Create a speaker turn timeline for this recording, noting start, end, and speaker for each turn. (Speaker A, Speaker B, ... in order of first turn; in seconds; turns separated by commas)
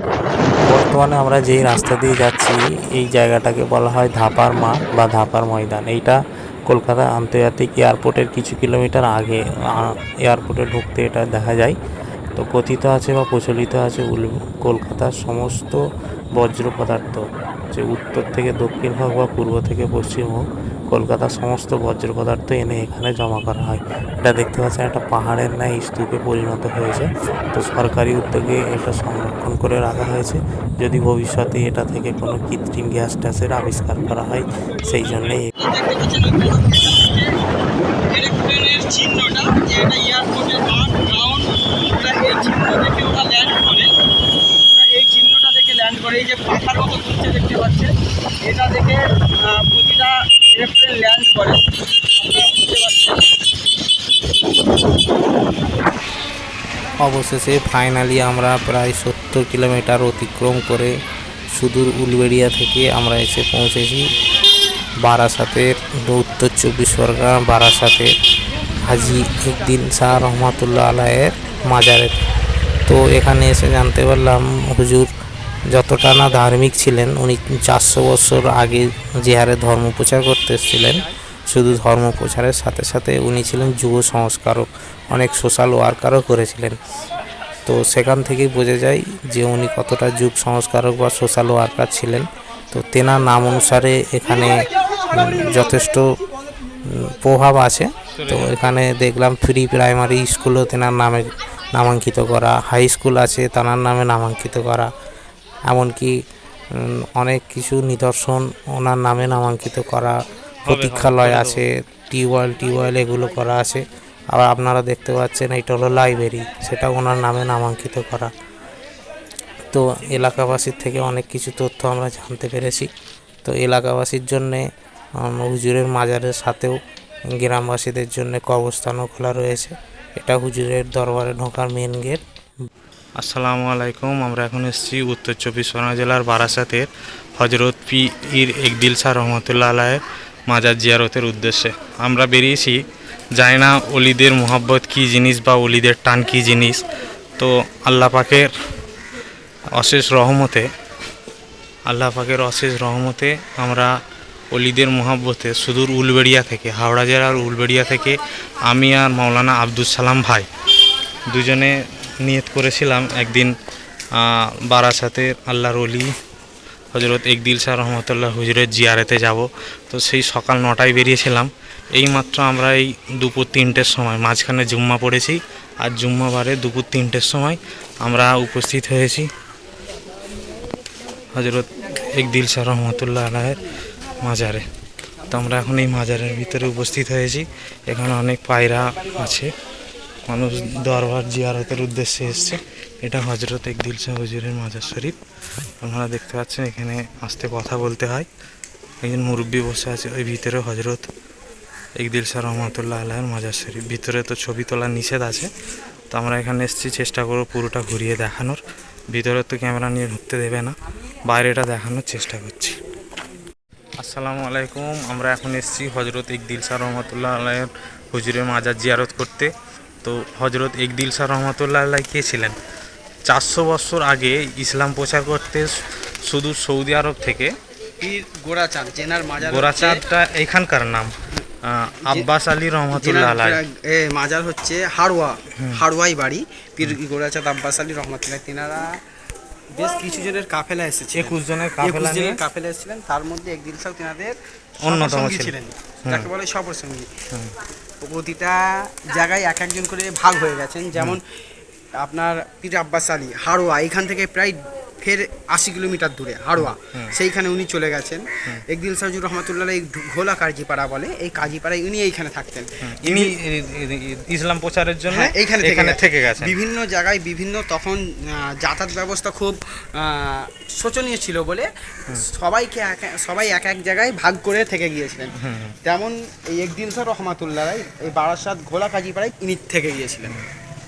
Speaker A: 0.6-11.8, Speaker A: 12.3-15.8, Speaker A: 16.4-35.4, Speaker B: 34.6-37.3, Speaker B: 38.1-43.9, Speaker B: 44.7-47.9, Speaker B: 48.4-51.6, Speaker B: 52.2-53.2, Speaker A: 57.0-60.9, Speaker A: 61.5-64.1, Speaker A: 65.0-68.1, Speaker A: 68.8-72.2, Speaker A: 72.9-75.1, Speaker A: 75.7-86.8, Speaker A: 87.7-96.2, Speaker A: 96.8-104.9, Speaker C: 98.1-98.6, Speaker A: 105.7-106.2, Speaker A: 106.7-118.3, Speaker C: 110.6-111.6, Speaker A: 119.7-122.9, Speaker A: 123.4-124.7, Speaker A: 125.2-126.8, Speaker A: 127.3-132.2, Speaker C: 133.2-142.8, Speaker C: 143.4-146.8, Speaker C: 147.4-148.5, Speaker C: 149.7-150.7, Speaker C: 151.9-153.9, Speaker C: 154.5-160.5, Speaker C: 161.3-163.5, Speaker C: 164.1-166.1, Speaker C: 166.9-179.3, Speaker C: 181.3-183.6, Speaker C: 184.2-184.7, Speaker C: 185.3-189.5, Speaker C: 190.2-195.2, Speaker C: 195.8-198.3, Speaker C: 199.0-201.1, Speaker C: 202.0-205.5, Speaker C: 206.1-210.8, Speaker C: 211.2-212.8, Speaker C: 214.0-222.6, Speaker C: 223.2-225.7, Speaker C: 226.2-227.5, Speaker B: 228.0-230.0, Speaker C: 229.4-231.1, Speaker C: 231.6-233.6, Speaker B: 232.9-238.9, Speaker B: 239.7-247.1, Speaker C: 241.1-242.4, Speaker C: 244.8-246.3, Speaker B: 248.0-251.2, Speaker B: 252.0-263.3, Speaker C: 256.6-257.1, Speaker C: 262.8-266.6, Speaker B: 265.1-275.3, Speaker C: 275.4-275.8, Speaker B: 275.8-280.4